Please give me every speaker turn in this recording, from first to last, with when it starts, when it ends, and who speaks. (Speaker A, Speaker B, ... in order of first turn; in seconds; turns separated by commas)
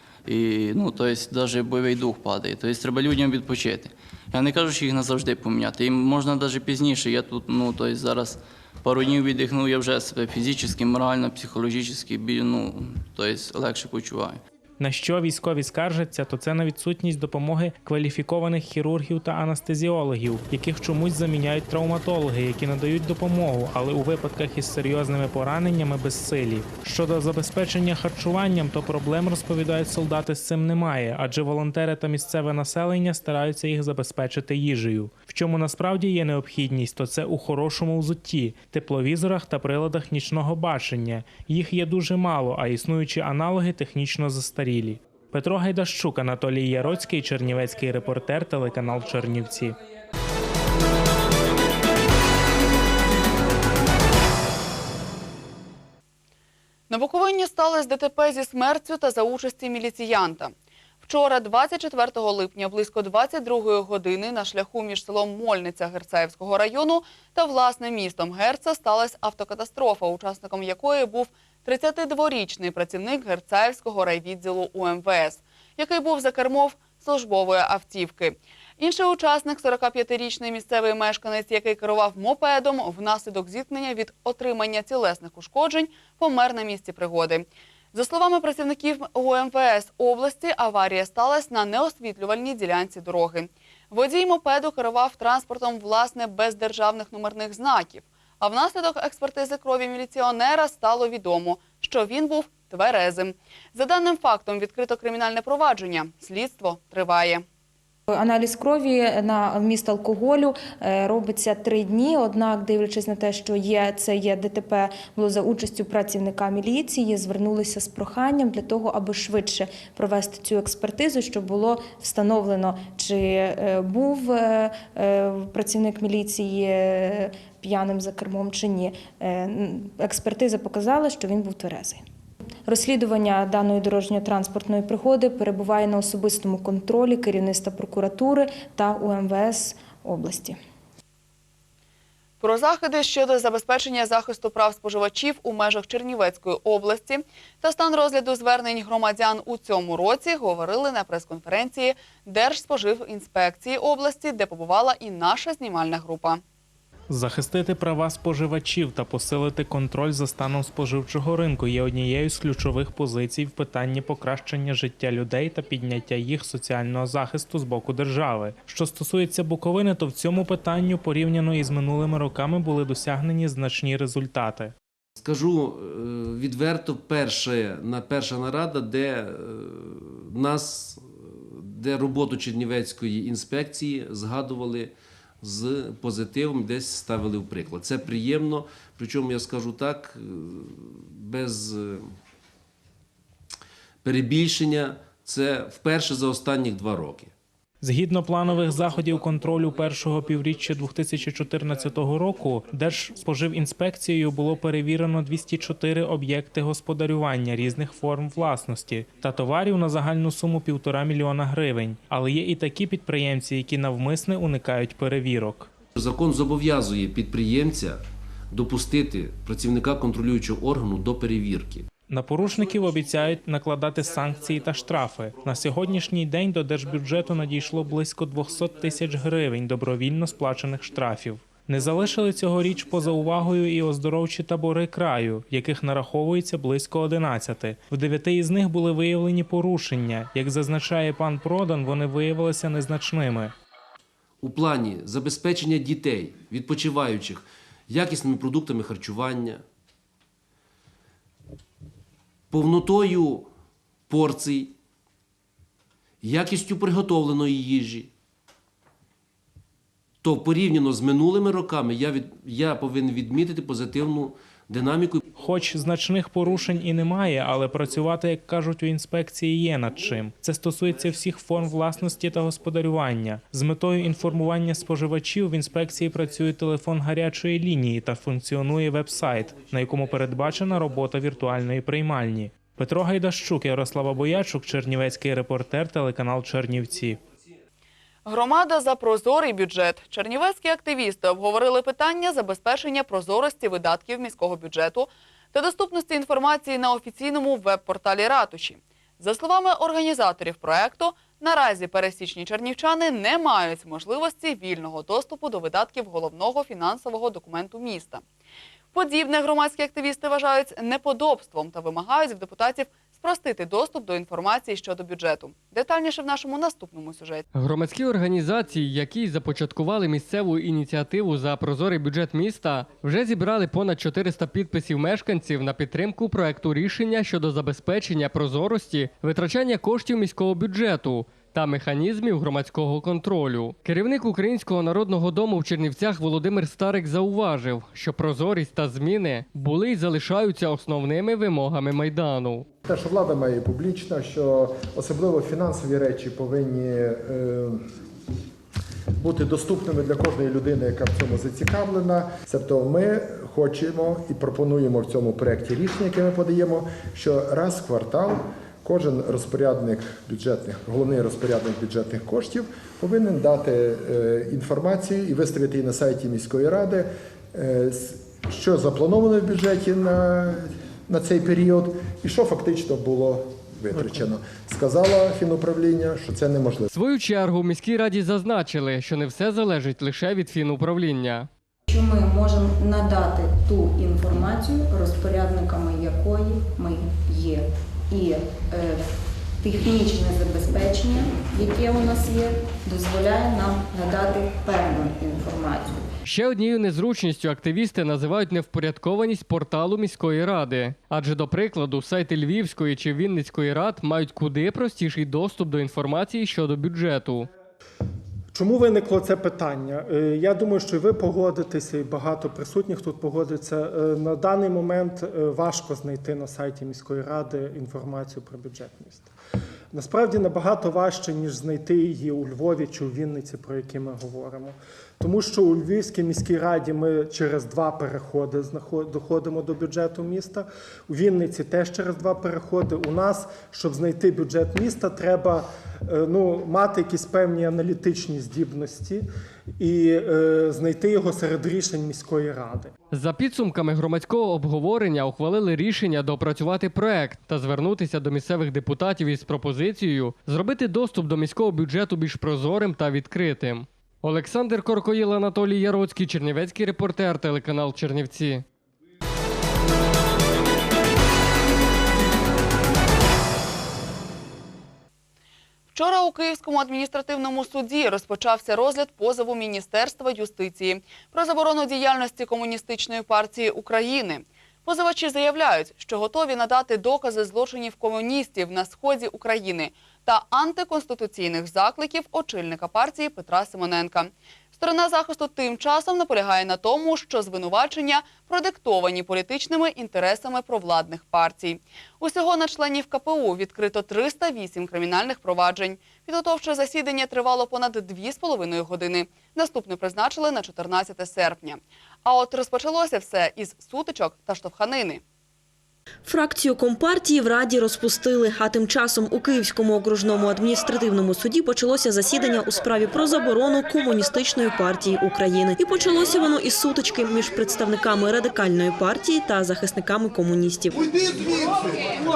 Speaker A: 0.2-14.4, Speaker B: 14.8-49.8, Speaker C: 56.9-107.4, Speaker D: 108.1-132.0, Speaker D: 132.7-140.6, Speaker C: 142.4-156.4, Speaker B: 157.1-174.7, Speaker E: 175.2-192.2, Speaker E: 194.0-197.3, Speaker B: 197.8-215.7, Speaker E: 215.9-221.9, Speaker B: 222.1-243.5, Speaker E: 244.4-249.6, Speaker E: 252.5-253.5, Speaker E: 254.1-254.7, Speaker E: 256.2-258.1, Speaker E: 260.2-265.2, Speaker B: 265.4-287.2, Speaker C: 288.2-308.2, Speaker C: 308.9-317.4, Speaker F: 317.5-342.7, Speaker G: 342.8-347.9, Speaker G: 349.2-376.9, Speaker F: 376.9-381.5, Speaker H: 381.9-396.0, Speaker F: 396.2-407.5, Speaker D: 408.5-419.3, Speaker I: 408.6-419.2, Speaker D: 420.0-430.6, Speaker I: 420.0-424.7, Speaker I: 425.2-435.6, Speaker D: 431.1-435.6, Speaker I: 436.2-439.1, Speaker D: 436.5-438.9, Speaker I: 439.8-442.8, Speaker D: 440.6-442.9, Speaker F: 443.1-458.6, Speaker C: 465.9-505.2, Speaker J: 506.2-521.0